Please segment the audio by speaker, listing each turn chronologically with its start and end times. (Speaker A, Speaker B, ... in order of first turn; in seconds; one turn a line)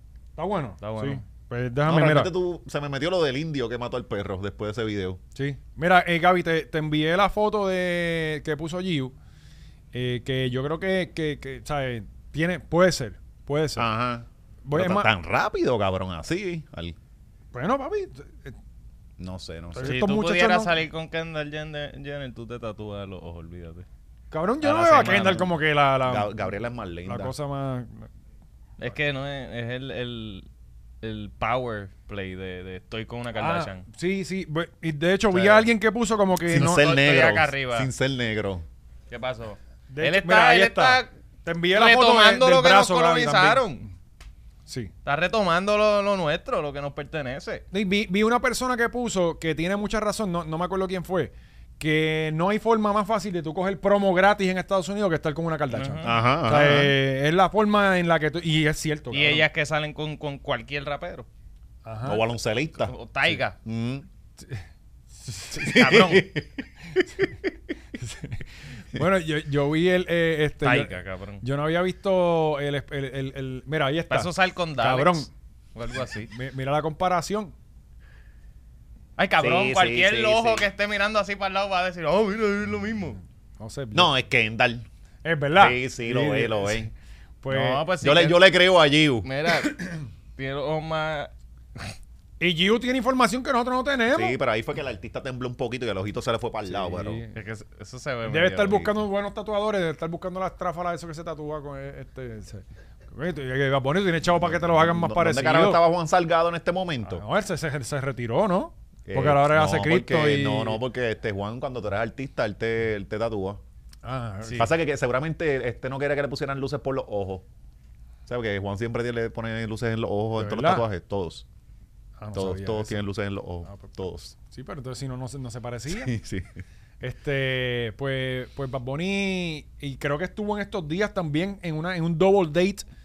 Speaker A: 0.4-2.3
Speaker B: 0.8-1.2
Speaker C: 1.9-5.2
Speaker A: 5.3-9.1
Speaker A: 9.9-13.9
Speaker C: 13.8-17.0
Speaker A: 14.7-15.1
Speaker A: 17.5-18.6
Speaker C: 19.2-20.0
Speaker A: 19.7-20.7
Speaker B: 19.8-23.9
Speaker A: 24.3-26.3
Speaker B: 24.6-25.4
Speaker C: 25.0-25.4
Speaker C: 26.1-27.3
Speaker A: 27.1-28.1
Speaker B: 28.8-30.5
Speaker B: 31.0-33.9
Speaker A: 33.4-36.9
Speaker C: 35.3-35.7
Speaker C: 36.5-38.6
Speaker B: 36.7-37.9
Speaker B: 39.1-41.1
Speaker A: 39.9-43.8
Speaker B: 41.7-43.9
Speaker A: 44.7-44.9
Speaker B: 45.0-47.6
Speaker A: 47.7-59.5
Speaker B: 55.7-56.1
Speaker C: 56.0-56.9
Speaker B: 59.1-61.3
Speaker A: 61.9-62.2
Speaker C: 62.1-64.1
Speaker B: 62.9-63.6
Speaker A: 65.2-65.6
Speaker C: 65.5-67.5
Speaker B: 65.6-66.3
Speaker A: 68.0-75.3
Speaker B: 70.6-71.4
Speaker B: 74.1-76.3
Speaker A: 76.3-77.5
Speaker B: 79.2-83.2
Speaker C: 79.4-80.7
Speaker A: 83.6-84.1
Speaker C: 83.9-84.9
Speaker A: 85.2-86.9
Speaker C: 85.6-86.9
Speaker A: 87.4-87.8
Speaker B: 87.5-88.4
Speaker C: 88.0-89.3
Speaker B: 89.2-89.8
Speaker A: 89.7-90.0
Speaker B: 90.4-91.9
Speaker A: 92.4-94.4
Speaker C: 94.1-97.2
Speaker A: 96.7-97.3
Speaker B: 97.3-99.0
Speaker A: 98.3-105.8
Speaker C: 104.3-107.2
Speaker A: 107.0-110.8
Speaker C: 109.1-113.6
Speaker A: 114.0-114.8
Speaker C: 114.4-117.5
Speaker C: 118.3-121.5
Speaker A: 120.4-120.9
Speaker A: 122.2-123.0
Speaker C: 122.3-124.3
Speaker A: 123.7-126.1
Speaker C: 125.9-126.5
Speaker A: 127.0-132.8